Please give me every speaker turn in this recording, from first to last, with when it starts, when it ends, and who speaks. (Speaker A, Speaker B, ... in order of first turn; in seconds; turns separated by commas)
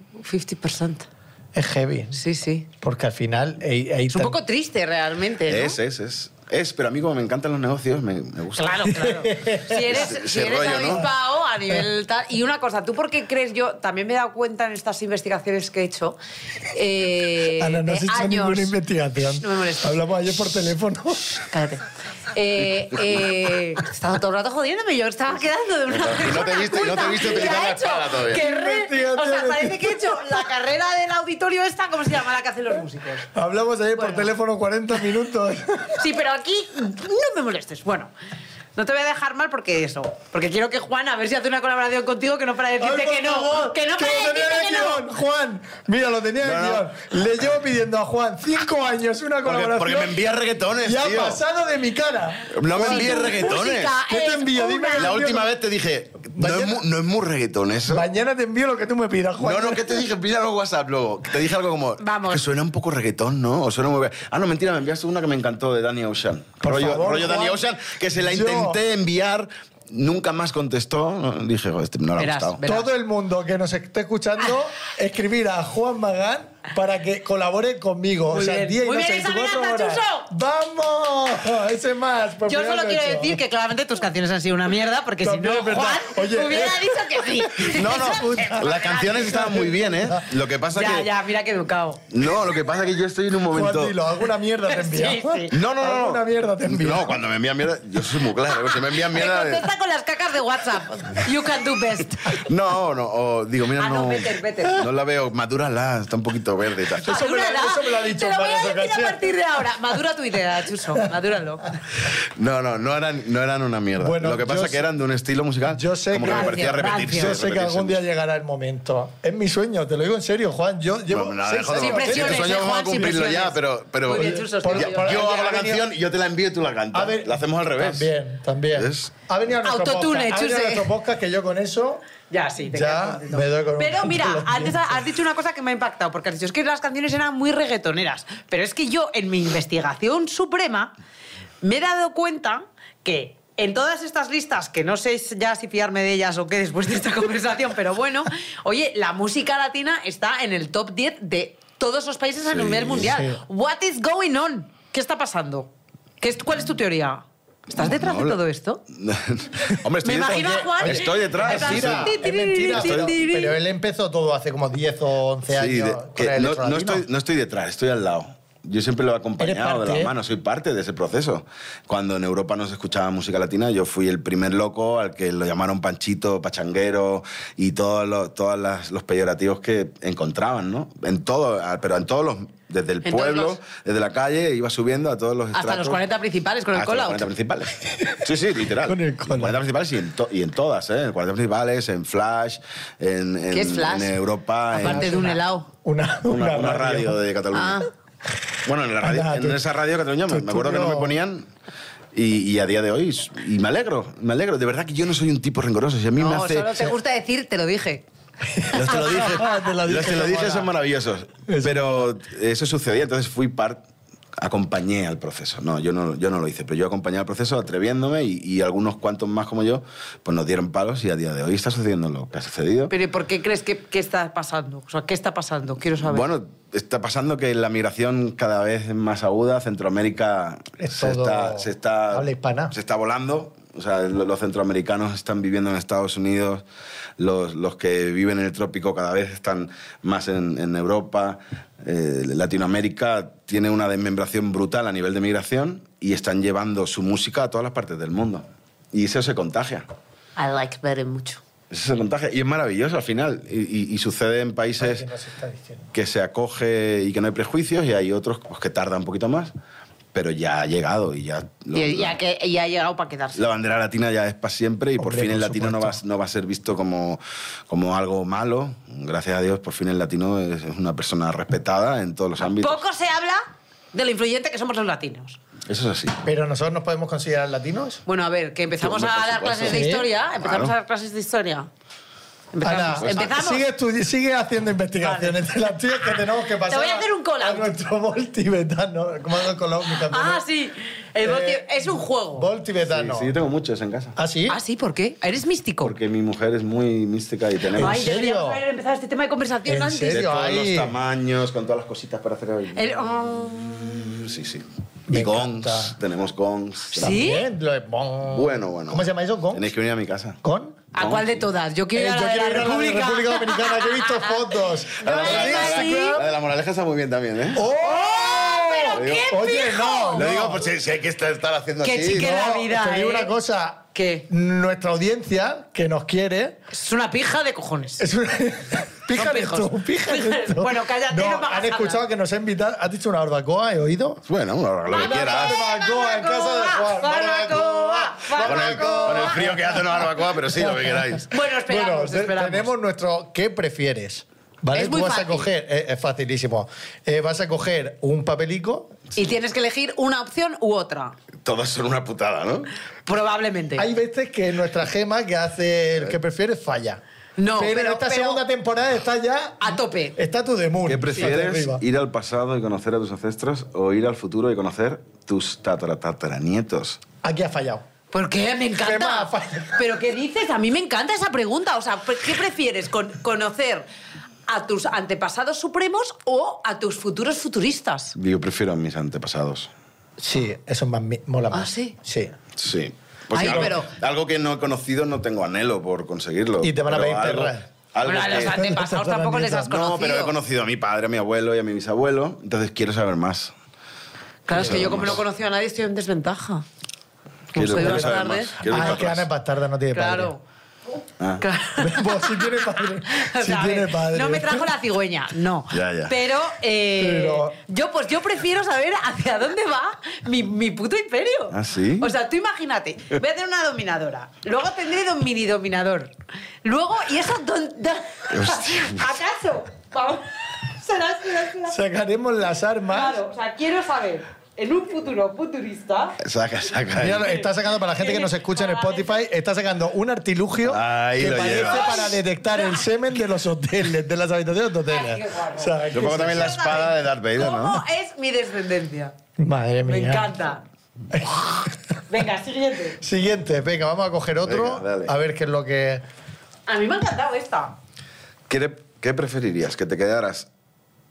Speaker A: 0.2-1.1, Speaker B: 1.5-2.2, Speaker A: 2.1-2.7, Speaker B: 2.8-4.4, Speaker A: 4.1-5.8, Speaker C: 5.5-9.0, Speaker A: 8.6-16.2, Speaker B: 8.9-10.0, Speaker C: 9.9-11.1, Speaker A: 16.7-18.8, Speaker B: 17.5-21.4, Speaker A: 19.3-20.1, Speaker A: 21.3-33.3, Speaker C: 25.9-28.4, Speaker B: 28.3-30.2, Speaker B: 33.3-36.0, Speaker A: 34.0-34.3, Speaker A: 36.0-38.1, Speaker A: 38.8-45.1, Speaker B: 42.8-50.2, Speaker C: 46.4-46.9, Speaker C: 49.4-51.4, Speaker B: 50.8-53.6, Speaker C: 52.5-54.0, Speaker A: 52.8-55.2, Speaker B: 54.1-55.5, Speaker C: 55.0-58.1, Speaker B: 56.4-56.8, Speaker B: 57.9-60.0, Speaker C: 59.4-72.6, Speaker A: 62.0-62.4, Speaker B: 66.6-68.8, Speaker A: 72.2-72.9, Speaker B: 72.6-83.4, Speaker A: 78.3-80.3, Speaker A: 82.5-89.7, Speaker B: 85.2-90.3, Speaker C: 87.7-91.1, Speaker A: 90.7-92.0, Speaker C: 92.1-94.0, Speaker B: 93.5-97.2, Speaker A: 94.7-95.5, Speaker C: 95.5-99.7, Speaker A: 98.5-102.5, Speaker C: 102.4-107.2, Speaker A: 103.8-104.8, Speaker B: 106.9-109.4, Speaker A: 107.0-111.7, Speaker C: 112.0-118.0, Speaker B: 114.0-114.8, Speaker B: 115.7-122.6, Speaker A: 116.2-117.4, Speaker C: 121.1-128.1, Speaker A: 121.8-125.6, Speaker B: 124.1-125.9, Speaker B: 126.9-132.1, Speaker C: 128.7-129.1, Speaker A: 129.6-130.9, Speaker A: 132.3-140.9, Speaker B: 132.7-135.0, Speaker A: 141.6-158.8, Speaker C: 152.5-153.1, Speaker B: 152.9-153.4, Speaker C: 157.8-158.4, Speaker C: 158.9-163.2, Speaker A: 160.0-163.6, Speaker B: 160.2-167.1, Speaker C: 165.5-186.0, Speaker B: 169.4-170.1, Speaker A: 183.0-183.6, Speaker A: 185.5-187.3, Speaker C: 186.7-195.3, Speaker B: 188.0-188.3, Speaker B: 188.8-189.6, Speaker A: 193.5-194.2, Speaker A: 194.7-195.7, Speaker B: 194.8-197.2, Speaker C: 196.3-197.9, Speaker A: 197.5-197.9, Speaker C: 198.7-201.5, Speaker B: 199.0-199.6, Speaker B: 200.3-201.2, Speaker C: 202.1-206.7, Speaker A: 206.2-208.1, Speaker B: 208.5-210.7, Speaker A: 208.7-209.6, Speaker C: 208.7-213.8, Speaker B: 211.5-212.1, Speaker C: 214.4-222.9, Speaker A: 222.9-226.3, Speaker C: 226.0-236.6, Speaker B: 230.8-232.8, Speaker C: 237.2-249.9, Speaker A: 250.4-251.4, Speaker C: 251.7-255.1, Speaker B: 254.8-255.9, Speaker C: 255.9-259.5, Speaker C: 260.1-262.2, Speaker A: 261.7-263.4, Speaker C: 263.4-272.8, Speaker B: 265.0-266.0, Speaker A: 272.4-273.4, Speaker A: 273.9-275.4, Speaker C: 275.7-276.2, Speaker B: 276.2-278.0, Speaker A: 278.1-281.7, Speaker C: 278.8-280.7, Speaker B: 279.6-280.1, Speaker A: 282.5-283.6, Speaker B: 282.6-290.4, Speaker C: 283.0-283.4, Speaker A: 285.0-285.4, Speaker A: 286.7-287.7, Speaker A: 290.0-292.5, Speaker B: 291.2-293.3, Speaker C: 292.9-294.1, Speaker B: 294.2-294.6, Speaker A: 294.5-295.9, Speaker C: 295.8-298.0, Speaker B: 297.8-298.6, Speaker A: 297.8-300.2, Speaker B: 299.7-300.9, Speaker C: 300.1-303.2, Speaker A: 302.8-304.2, Speaker C: 303.8-307.3, Speaker B: 305.1-306.0, Speaker A: 307.0-307.5, Speaker B: 307.0-309.7, Speaker C: 308.2-310.4, Speaker B: 310.4-310.8, Speaker A: 310.9-316.2, Speaker C: 311.0-311.4, Speaker B: 311.9-316.3, Speaker C: 315.0-317.6, Speaker B: 317.6-320.7, Speaker A: 317.7-320.4, Speaker C: 318.9-319.4, Speaker C: 320.1-322.5, Speaker A: 321.8-323.3, Speaker B: 322.1-326.6, Speaker A: 323.9-324.3, Speaker A: 326.7-328.0, Speaker B: 328.0-334.2, Speaker A: 329.1-332.0, Speaker C: 334.3-335.6, Speaker A: 334.9-339.7, Speaker B: 334.9-349.0, Speaker C: 338.4-341.3, Speaker A: 341.3-342.7, Speaker A: 344.7-345.5, Speaker A: 349.1-351.2, Speaker C: 351.4-352.7, Speaker A: 353.1-353.9, Speaker B: 353.8-357.0, Speaker A: 357.4-358.4, Speaker B: 357.6-361.8, Speaker A: 359.6-360.1, Speaker C: 360.9-367.0, Speaker B: 367.2-367.8, Speaker A: 368.1-373.9, Speaker B: 368.8-369.9, Speaker A: 374.5-378.1, Speaker C: 378.1-379.7, Speaker B: 380.2-382.4, Speaker A: 381.5-382.0, Speaker C: 382.6-388.7, Speaker A: 383.3-383.9, Speaker B: 383.4-383.7, Speaker B: 386.6-387.6, Speaker A: 388.0-390.4, Speaker B: 388.3-389.7, Speaker C: 389.7-393.5, Speaker A: 394.5-396.6, Speaker C: 394.5-395.2, Speaker B: 394.6-395.0, Speaker A: 397.5-399.0, Speaker C: 397.5-399.3, Speaker B: 397.8-398.1, Speaker B: 398.6-400.3, Speaker A: 399.9-400.4, Speaker A: 401.4-421.8, Speaker B: 401.8-404.7, Speaker C: 405.7-406.1, Speaker B: 406.9-407.6, Speaker C: 411.5-412.1, Speaker C: 418.3-419.0, Speaker B: 421.7-423.2, Speaker A: 422.9-426.2, Speaker C: 426.2-427.3, Speaker B: 427.0-436.6, Speaker A: 428.0-429.2, Speaker C: 430.6-432.1, Speaker A: 431.5-432.9, Speaker A: 434.9-439.1, Speaker C: 435.9-437.8, Speaker B: 439.4-440.3, Speaker A: 439.9-440.6, Speaker B: 441.1-441.7, Speaker A: 441.2-443.0, Speaker B: 443.0-446.0, Speaker C: 444.4-445.1, Speaker A: 446.7-447.7, Speaker C: 448.5-450.5